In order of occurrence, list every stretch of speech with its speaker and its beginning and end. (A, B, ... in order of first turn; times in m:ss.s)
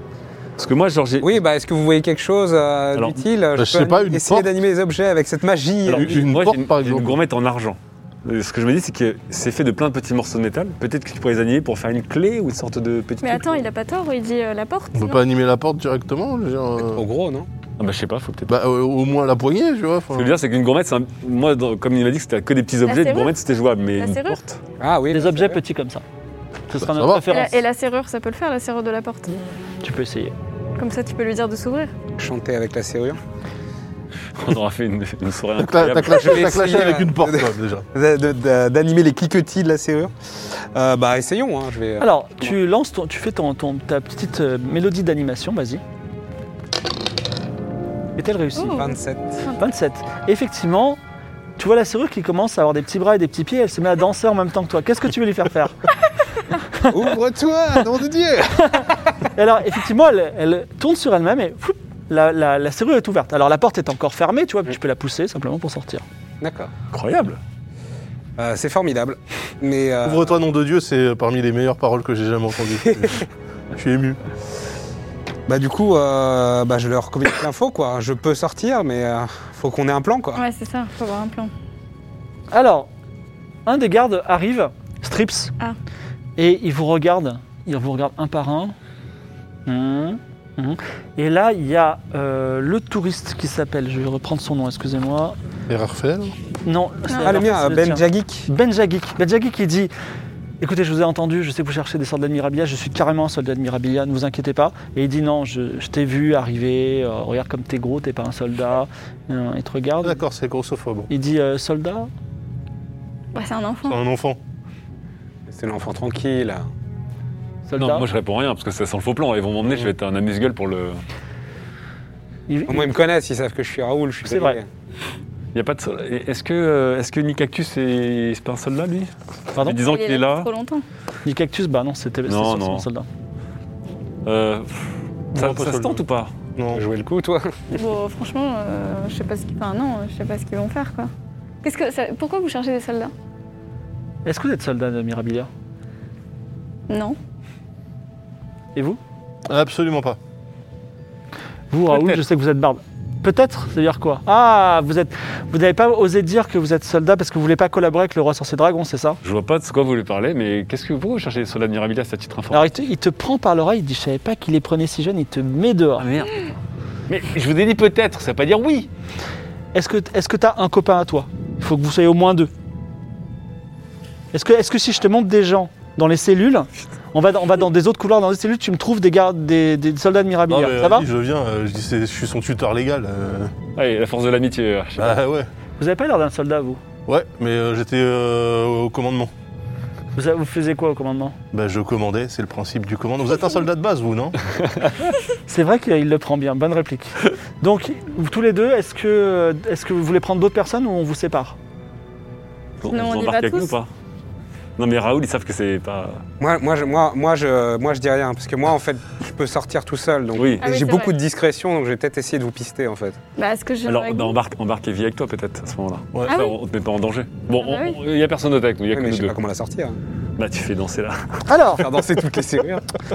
0:00.6-0:01.3 A
0:01.2-0:06.2 B
0:03.0-0:03.2 A
0:03.6-0:04.5 C
0:05.9-0:13.6 A
0:05.9-0:07.2 C
0:13.2-0:15.2 D
0:15.0-0:17.0 C
0:16.8-0:17.5 B
0:17.8-0:18.6 A
0:18.5-0:20.4 C
0:20.1-0:24.6 A
0:22.9-0:23.4 D
0:24.0-0:24.4 D
0:24.8-0:25.6 B
0:25.1-0:26.0 E
0:26.7-0:27.6 E
0:26.8-0:27.3 C
0:27.3-0:29.4 D
0:29.8-0:30.3 E
0:30.8-0:31.9 D
0:32.2-0:33.2 B
0:34.4-0:36.6 A
0:35.6-0:37.9 C
0:36.1-0:42.5 B
0:42.0-0:45.8 E
0:48.2-0:48.9 E
0:48.6-0:48.9 D
0:48.7-0:49.4 B
0:49.6-0:51.0 E
0:51.6-0:55.8 E
0:56.9-0:59.2 B
0:58.7-1:06.0 E
1:06.4-1:06.7 B
1:06.9-1:07.4 A
1:08.4-1:10.4 B
1:10.0-1:14.2 C
1:12.8-1:13.2 B
1:15.5-1:20.4 B
1:20.4-1:21.5 D
1:22.5-1:22.9 E
1:23.7-1:25.5 E
1:26.4-1:28.8 E
1:29.7-1:35.4 E
1:35.7-1:36.4 C
1:36.7-1:39.9 E
1:37.1-1:37.4 D
1:37.2-1:38.5 B
1:40.6-1:50.2 E
1:50.0-1:51.1 C
1:51.1-1:52.1 E
1:53.3-1:54.0 D
1:53.9-1:54.4 C
1:55.5-1:56.7 B
1:57.7-1:58.1 E
1:57.8-2:01.0 A
2:02.5-2:03.0 E
2:02.7-2:04.7 B
2:04.3-2:04.6 E
2:05.5-2:10.5 A
2:09.6-2:09.8 E
2:09.8-2:10.8 D
2:11.2-2:13.1 E
2:12.3-2:12.9 A
2:14.3-2:16.3 A
2:15.3-2:16.0 C
2:16.6-2:16.8 C
2:16.7-2:17.8 B
2:17.8-2:21.1 D
2:21.6-2:23.1 D
2:24.3-2:25.5 E
2:26.9-2:27.2 D
2:28.8-2:29.0 E
2:29.5-2:30.2 C
2:31.7-2:39.2 E
2:31.9-2:32.2 A
2:39.2-2:42.7 A
2:42.5-2:46.0 E
2:46.0-2:46.4 A
2:47.1-2:48.9 A
2:49.7-2:52.5 E
2:54.3-3:01.1 E
3:00.5-3:03.5 C
3:03.8-3:05.2 A
3:05.0-3:05.5 C
3:05.8-3:06.8 E
3:07.1-3:09.3 C
3:10.2-3:11.4 E
3:11.5-3:14.4 C
3:14.6-3:15.0 A
3:15.5-3:21.6 E
3:22.8-3:23.9 A
3:22.9-3:23.8 D
3:24.8-3:26.2 A
3:26.4-3:33.2 B
3:30.4-3:30.6 A
3:30.6-3:31.2 D
3:33.4-3:34.4 D
3:33.9-3:39.4 A
3:36.3-3:36.6 D
3:37.6-3:38.0 D
3:38.9-3:40.0 B
3:40.4-3:41.5 A
3:41.5-3:41.9 E
3:41.8-3:42.9 B